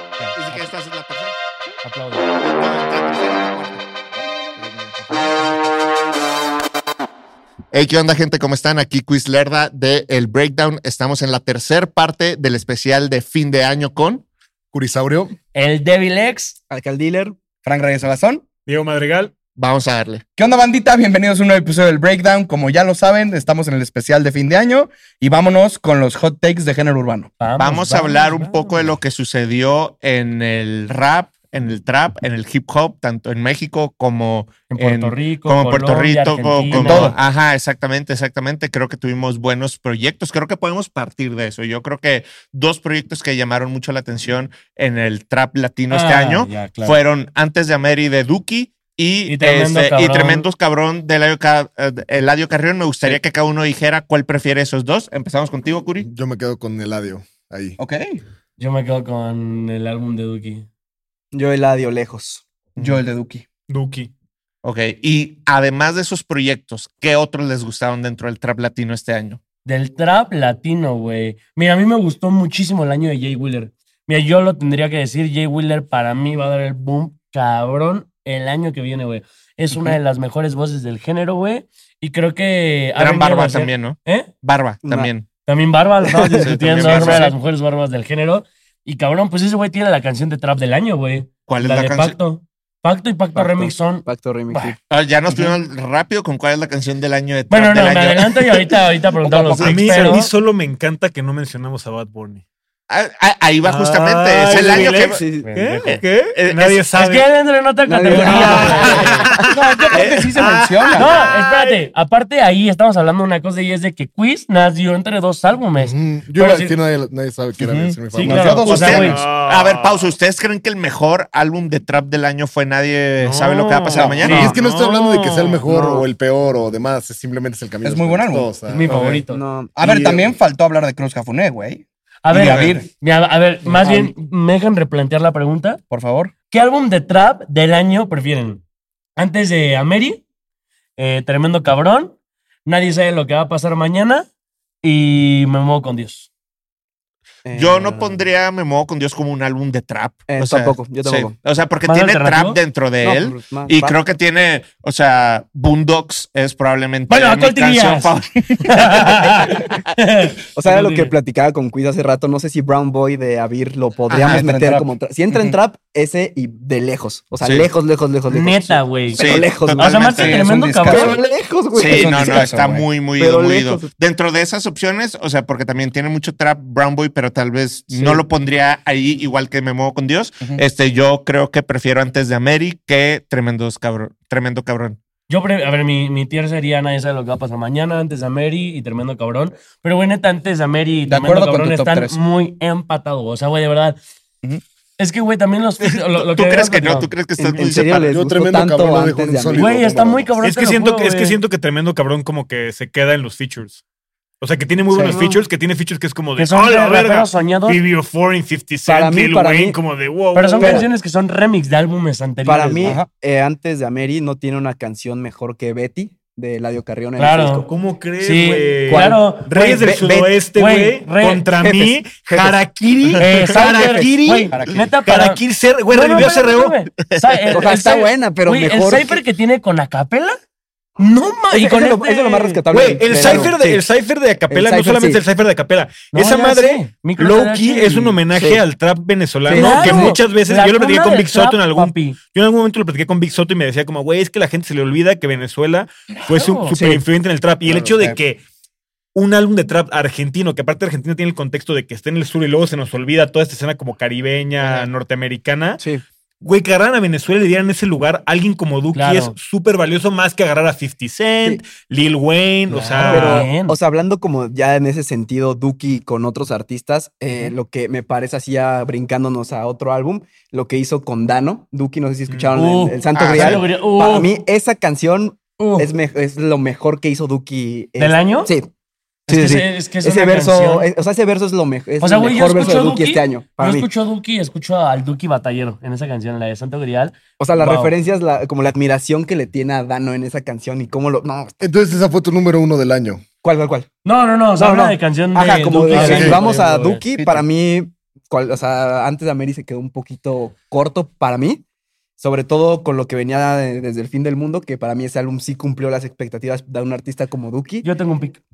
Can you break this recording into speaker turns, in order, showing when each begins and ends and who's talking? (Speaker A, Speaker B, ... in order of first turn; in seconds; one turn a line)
Speaker A: 0.2-0.7
Speaker B: 0.3-1.4
Speaker A: 1.8-2.2
Speaker B: 2.3-3.8
Speaker C: 4.1-5.2
Speaker B: 4.6-4.9
Speaker B: 7.7-14.2
Speaker D: 14.7-15.3
Speaker A: 15.5-16.6
Speaker E: 16.7-17.4
Speaker C: 17.6-18.4
Speaker F: 18.6-19.3
Speaker B: 19.6-20.2
Speaker C: 20.4-27.3
Speaker A: 27.4-29.0
Speaker B: 27.6-56.1
Speaker A: 34.7-37.2
Speaker C: 36.7-37.2
Speaker A: 45.9-47.0
Speaker A: 49.2-50.5
Speaker D: 56.0-57.8
Speaker C: 57.8-58.2
Speaker A: 58.6-60.7
Speaker E: 61.3-62.4
Speaker C: 62.8-63.4
Speaker F: 63.7-64.1
Speaker B: 64.6-69.4
Speaker A: 69.6-84.3
Speaker B: 83.0-85.3
Speaker E: 84.8-85.1
Speaker A: 85.5-94.7
Speaker E: 86.0-87.3
Speaker B: 86.4-87.3
Speaker B: 91.5-92.2
Speaker E: 93.3-94.8
Speaker B: 94.9-98.8
Speaker A: 97.5-100.3
Speaker C: 99.2-100.2
Speaker F: 99.6-102.4
Speaker B: 102.9-105.2
Speaker F: 103.6-107.2
Speaker E: 104.5-105.5
Speaker A: 105.4-106.0
Speaker B: 105.8-106.8
Speaker A: 107.0-109.3
Speaker E: 107.8-109.5
Speaker F: 108.1-111.8
Speaker B: 108.8-109.2
Speaker C: 109.5-111.1
Speaker B: 110.0-110.3
Speaker A: 110.9-116.7
Speaker D: 115.8-119.1
Speaker C: 117.6-119.2
Speaker A: 118.1-119.2
Speaker B: 118.6-124.5
Speaker F: 118.8-120.1
Speaker F: 123.2-126.0
Speaker E: 123.9-124.5
Speaker D: 124.2-129.1
Speaker E: 125.7-126.0
Speaker C: 127.8-129.2
Speaker A: 128.7-129.4
Speaker E: 129.2-129.7
Speaker C: 129.7-132.9
Speaker D: 129.8-130.3
Speaker A: 132.2-135.8
Speaker B: 132.4-132.8
Speaker E: 133.7-134.1
Speaker C: 135.9-136.3
Speaker A: 136.5-138.6
Speaker A: 139.2-140.2
Speaker A: 141.0-142.1
Speaker A: 142.7-144.3
Speaker A: 144.8-146.3
Speaker E: 147.4-148.2
Speaker B: 147.5-159.6
Speaker E: 150.3-151.3
Speaker A: 151.8-152.6
Speaker E: 153.0-154.0
Speaker A: 157.1-161.1
Speaker E: 160.5-170.2
Speaker C: 164.1-165.6
Speaker B: 167.4-167.7
Speaker A: 168.3-171.2
Speaker B: 169.1-170.5
Speaker C: 170.0-171.2
Speaker E: 170.8-172.6
Speaker B: 171.7-185.0
Speaker C: 171.8-172.9
Speaker E: 173.2-173.9
Speaker E: 177.9-178.2
Speaker A: 185.3-194.0
Speaker C: 191.0-192.2
Speaker A: 195.0-197.1
Speaker B: 195.9-198.1
Speaker E: 197.3-199.7
Speaker D: 198.0-200.3
Speaker A: 199.5-201.4
Speaker F: 200.4-203.8
Speaker F: 204.4-210.8
Speaker E: 204.9-205.4
Speaker A: 204.9-205.3
Speaker A: 206.4-207.8
Speaker E: 208.8-209.8
Speaker A: 210.3-212.9
Speaker E: 210.5-210.9
Speaker E: 212.4-217.7
Speaker A: 217.2-217.7
Speaker F: 217.7-226.8
Speaker A: 218.2-219.8
Speaker E: 218.9-220.4
Speaker A: 220.5-221.5
Speaker E: 221.5-224.3
Speaker A: 223.2-230.4
Speaker C: 224.5-224.9
Speaker B: 227.1-227.5
Speaker E: 227.5-229.2
Speaker A: 231.0-233.5
Speaker E: 231.5-233.9
Speaker F: 232.7-248.4
Speaker E: 234.5-235.2
Speaker A: 236.1-238.1
Speaker E: 238.2-238.6
Speaker E: 239.5-240.2
Speaker A: 239.5-242.2
Speaker A: 246.3-246.8
Speaker E: 246.7-247.0
Speaker C: 247.6-248.2
Speaker F: 249.1-255.8
Speaker B: 254.6-254.9
Speaker E: 255.8-256.0
Speaker F: 256.4-263.5
Speaker A: 258.9-259.3
Speaker E: 262.7-278.7
Speaker A: 262.9-263.8
Speaker A: 272.5-274.3
Speaker B: 273.1-273.6
Speaker A: 275.6-275.9
Speaker A: 278.0-278.5
Speaker A: 279.3-280.9
Speaker E: 279.3-283.9
Speaker A: 282.0-287.9
Speaker E: 287.4-291.6
Speaker D: 291.6-293.2
Speaker E: 293.4-293.9
Speaker A: 294.0-297.0
Speaker E: 294.6-301.6
Speaker C: 295.9-296.4
Speaker D: 296.1-296.4
Speaker C: 297.1-297.4
Speaker E: 302.2-307.9
Speaker A: 307.8-308.4